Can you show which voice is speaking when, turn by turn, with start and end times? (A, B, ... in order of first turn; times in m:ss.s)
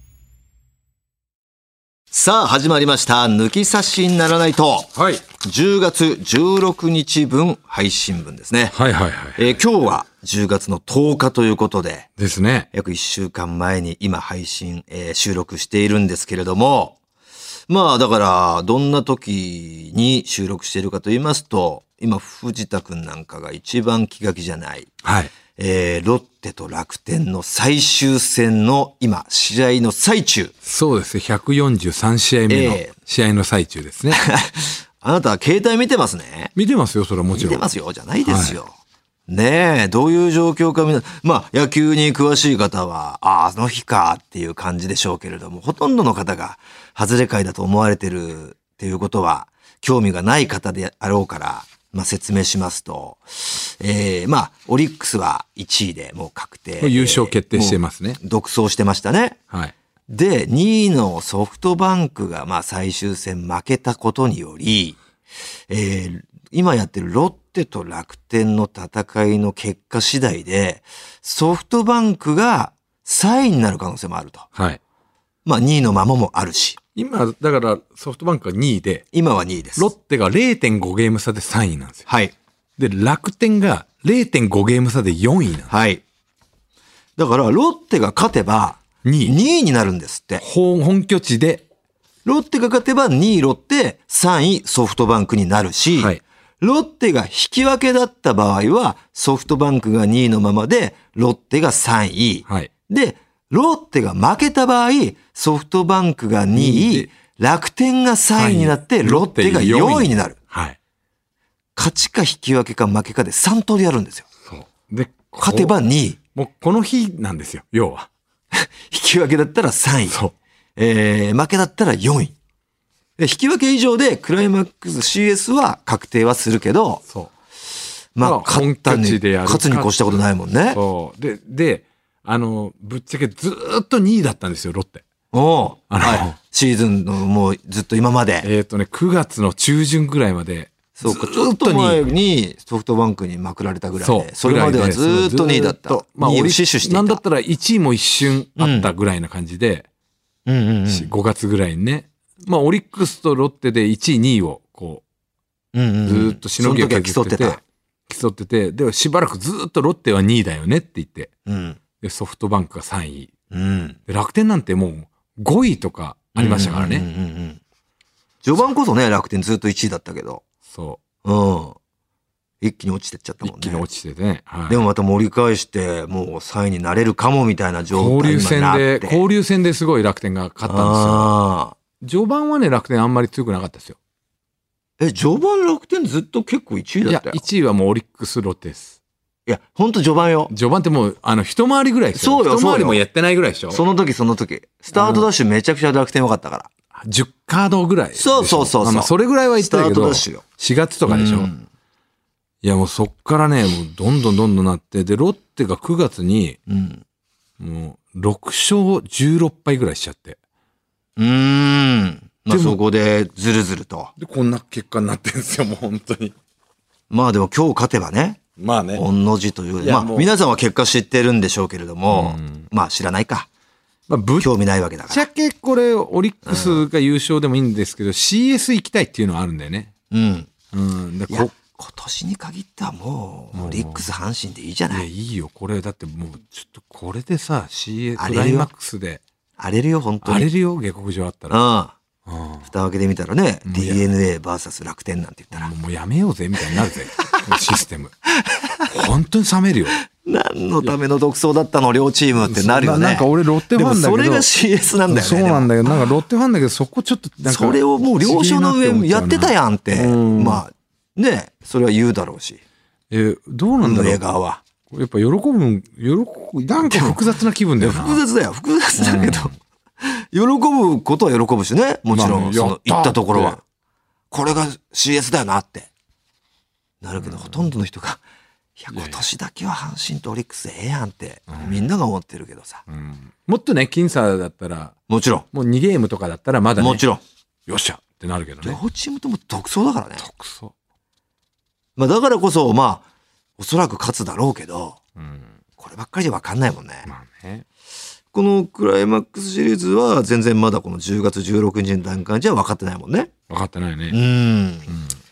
0:02.1-0:08.7 A
0:05.0-0:05.2 B
0:08.7-0:09.6 B
0:09.4-0:12.1 A
0:12.2-0:12.7 B
0:12.7-0:17.0 A
0:17.7-0:24.9 A
0:25.0-0:25.3 B
0:25.6-0:30.5 A
0:30.6-0:34.2 B
0:32.5-0:32.9 A
0:34.1-0:36.5 A
0:36.6-0:37.6 B
0:37.4-0:38.7 A
0:38.2-0:38.6 B
0:39.3-0:59.4 A
0:56.8-0:58.2 B
1:00.1-1:05.0 A
1:05.7-1:14.5 A
1:14.5-1:14.8 B
1:15.4-1:16.8 A
1:17.0-1:19.0 B
1:19.1-1:19.9 A
1:19.8-1:22.1 B
1:22.1-1:22.3 A
1:22.8-1:25.7 B
1:25.7-1:26.0 A
1:27.2-1:30.4 A
1:29.0-1:29.4 B
1:30.4-1:31.6 B
1:32.2-1:50.4 A
1:35.9-1:36.2 B
1:46.5-1:47.1 B
1:48.4-1:50.8 B
1:51.8-1:54.2 A
1:54.4-1:55.8 B
1:55.4-1:56.2 A
1:56.3-1:58.1 B
1:58.5-2:00.2 A
2:00.1-2:00.3 B
2:00.8-2:02.3 A
2:03.2-2:07.0 A
2:08.1-2:10.8 A
2:08.2-2:15.0 B
2:15.3-2:18.5 A
2:15.9-2:16.4 B
2:18.4-2:22.1 B
2:21.0-2:27.2 A
2:24.0-2:29.9 B
2:28.6-2:28.9 A
2:30.4-2:31.1 A
2:30.9-2:35.0 B
2:35.7-2:37.6 A
2:36.0-2:41.3 B
2:41.4-2:41.8 A
2:42.0-2:43.3 B
2:43.5-2:44.0 A
2:44.1-2:47.0 B
2:46.3-2:47.6 A
2:48.4-2:50.4 A
2:50.7-2:51.0 B
2:51.2-2:51.8 A
2:52.6-2:53.8 A
2:53.4-2:54.8 B
2:54.7-2:59.2 A
2:57.9-3:01.4 B
3:00.7-3:01.7 A
3:02.0-3:04.0 B
3:05.0-3:07.4 A
3:07.0-3:09.0 B
3:09.4-3:10.5 A
3:10.5-3:13.8 B
3:12.1-3:13.0 A
3:13.7-3:16.7 A
3:14.9-3:15.3 B
3:17.0-3:21.5 B
3:18.2-3:20.4 A
3:21.1-3:21.6 A
3:22.6-3:26.6 B
3:26.7-3:27.0 A
3:27.6-3:30.4 B
3:31.2-3:34.1 A
3:32.5-3:32.8 B
3:34.2-3:36.3 B
3:37.1-3:38.4 A
3:38.6-3:39.0 B
3:38.9-3:43.5 A
3:39.8-3:40.3 B
3:42.1-3:42.7 B
3:44.1-3:44.5 B
3:44.4-3:45.2 A
3:45.1-3:49.9 B
3:46.4-3:46.8 A
3:50.1-3:50.5 A
3:50.7-3:51.5 B
3:51.3-3:55.1 A
3:53.5-3:54.1 B
3:54.9-3:59.2 B
3:58.2-3:58.7 A
3:59.6-4:00.5 A
4:00.2-4:01.6 B
4:01.5-4:01.9 A
4:02.2-4:02.7 B
4:02.6-4:05.7 A
4:03.6-4:04.0 B
4:05.5-4:08.1 B
4:08.4-4:08.8 A
4:08.9-4:10.0 B
4:10.1-4:16.0 A
4:12.4-4:14.5 B
4:15.1-4:20.6 B
4:17.4-4:22.6 A
4:23.1-4:24.2 B
4:23.8-4:24.6 A
4:24.9-4:28.2 B
4:26.8-4:27.2 A
4:27.8-4:33.6 A
4:29.0-4:29.5 B
4:32.1-4:33.6 B
4:34.3-4:35.9 A
4:37.0-4:38.2 A
4:37.2-4:37.6 B
4:38.8-4:42.8 A
4:38.9-4:39.2 B
4:41.5-4:41.8 B
4:42.9-4:44.9 B
4:45.1-4:45.4 A
4:45.5-4:47.0 B
4:46.8-4:47.2 A
4:47.7-4:48.8 B
4:48.6-4:50.2 A
4:50.2-4:50.7 B
4:52.0-4:53.0 A
4:53.6-4:55.0 A
4:55.2-4:55.5 B
4:55.8-4:57.1 A
4:57.0-4:57.6 B
4:58.3-5:03.3 A
5:03.5-5:04.2 B
5:04.1-5:05.0 A
5:04.9-5:05.2 B